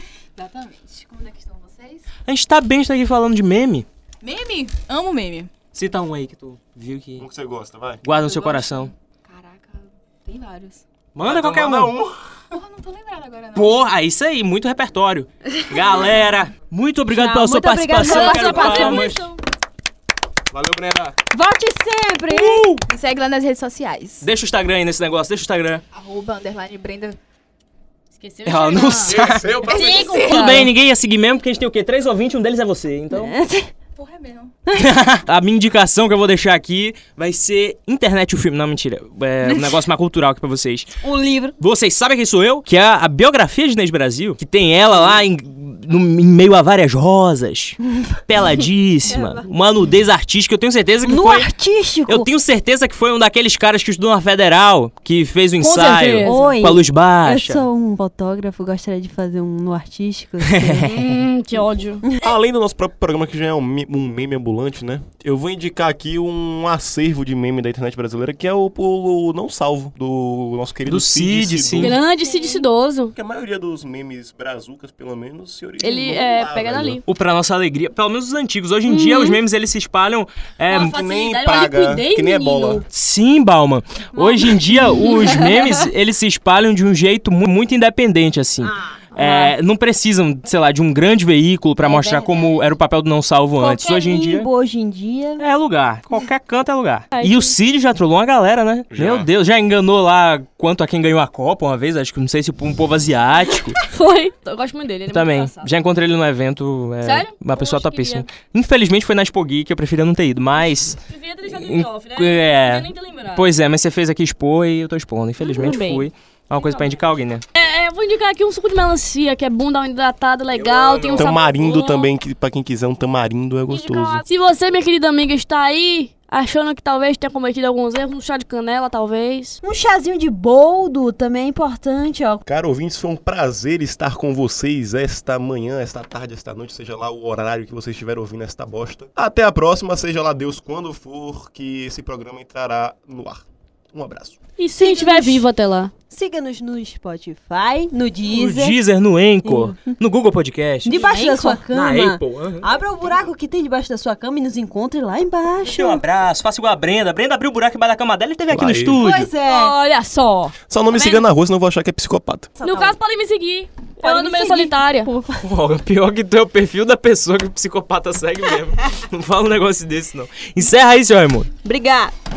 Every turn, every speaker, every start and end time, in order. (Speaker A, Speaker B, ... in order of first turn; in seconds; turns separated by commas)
Speaker A: 0.4-2.1, Speaker B: 2.3-3.9, Speaker A: 4.2-5.5, Speaker B: 5.7-7.3, Speaker C: 7.2-8.0, Speaker B: 8.0-8.9, Speaker A: 8.2-10.8, Speaker B: 11.1-11.9, Speaker C: 11.2-12.2, Speaker A: 12.5-13.9, Speaker B: 13.6-19.2, Speaker D: 17.1-19.2, Speaker E: 18.0-19.4, Speaker C: 20.5-21.1, Speaker D: 21.3-22.7, Speaker B: 22.3-22.9, Speaker A: 22.9-24.3, Speaker B: 24.2-25.8, Speaker A: 25.9-27.2, Speaker E: 28.1-29.2, Speaker B: 28.4-29.5, Speaker C: 29.1-30.3, Speaker A: 29.7-30.7, Speaker E: 29.7-30.5, Speaker B: 30.1-33.3, Speaker D: 33.1-33.7, Speaker A: 34.0-34.5, Speaker B: 34.7-41.0, Speaker D: 39.5-39.7, Speaker D: 41.0-41.5, Speaker B: 41.6-51.5, Speaker D: 49.1-49.5, Speaker D: 51.0-52.3, Speaker B: 52.1-57.6, Speaker E: 55.6-56.6, Speaker D: 56.2-60.9, Speaker B: 60.4-61.1, Speaker E: 60.9-62.0, Speaker C: 62.2-72.0, Speaker B: 70.9-72.0, Speaker E: 71.8-73.2, Speaker D: 72.2-72.7, Speaker C: 73.1-77.0, Speaker E: 75.8-77.0, Speaker B: 77.1-81.0, Speaker E: 78.9-79.4, Speaker E: 80.7-82.8, Speaker C: 80.7-82.8, Speaker B: 82.9-94.5, Speaker D: 84.1-84.6, Speaker E: 85.2-85.5, Speaker D: 88.6-89.5, Speaker E: 89.2-89.4, Speaker D: 91.8-92.6, Speaker D: 93.6-95.4, Speaker B: 95.4-103.8, Speaker E: 97.1-97.5, Speaker C: 98.9-99.3, Speaker E: 103.8-105.7, Speaker B: 105.1-117.4, Speaker E: 107.0-108.3, Speaker E: 111.0-113.5, Speaker E: 115.4-122.1, Speaker C: 120.5-124.2, Speaker E: 123.7-129.6, Speaker D: 129.6-132.4, Speaker C: 132.4-144.4, Speaker E: 144.6-145.9, Speaker D: 144.8-145.4, Speaker D: 146.1-148.8, Speaker B: 148.2-151.2, Speaker D: 149.4-149.9, Speaker D: 150.8-156.0, Speaker E: 150.9-151.6, Speaker B: 151.7-152.7, Speaker B: 155.7-159.3, Speaker C: 158.5-159.0, Speaker D: 159.0-159.8, Speaker E: 159.4-161.3, Speaker C: 160.7-162.6, Speaker D: 162.6-162.9, Speaker E: 162.6-165.1, Speaker D: 164.0-165.4, Speaker B: 165.4-171.5, Speaker D: 171.6-172.1